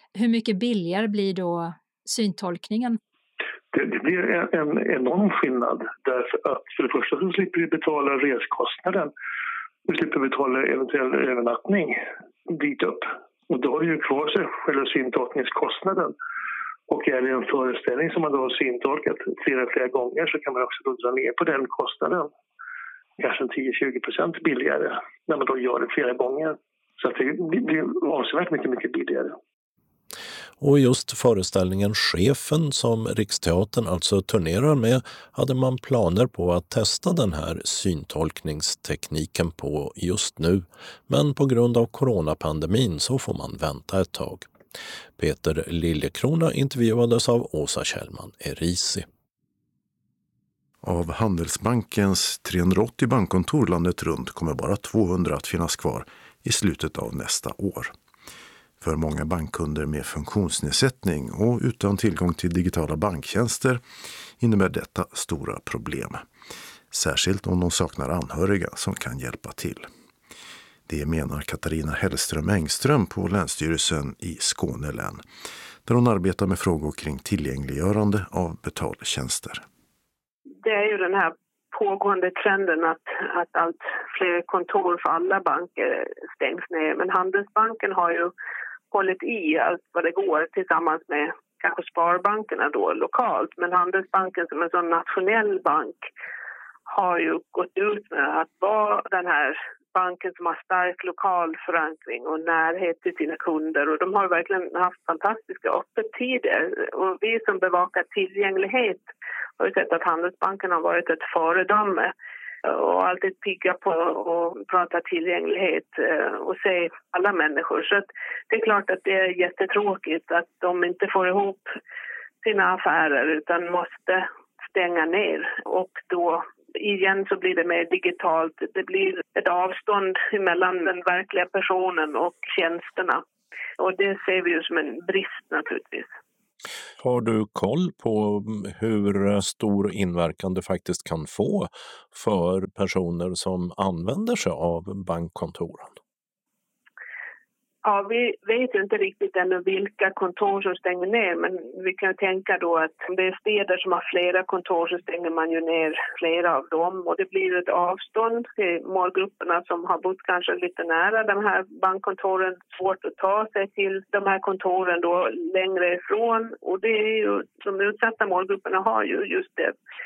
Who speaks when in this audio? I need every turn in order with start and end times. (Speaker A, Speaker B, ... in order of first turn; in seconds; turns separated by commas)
Speaker A: 0.1-3.0, Speaker B: 3.7-9.1, Speaker B: 9.9-16.1, Speaker B: 16.9-22.3, Speaker B: 23.2-29.4, Speaker C: 30.6-44.5, Speaker C: 45.2-49.1, Speaker D: 50.8-57.9, Speaker D: 58.8-63.8, Speaker D: 64.4-66.2, Speaker D: 66.9-69.9, Speaker D: 70.9-75.2, Speaker D: 75.9-79.6, Speaker E: 80.6-88.3, Speaker E: 88.9-96.1, Speaker E: 96.9-112.1, Speaker E: 112.7-121.7, Speaker E: 122.4-133.2, Speaker E: 133.8-136.1, Speaker C: 137.0-146.0, Speaker E: 147.8-169.8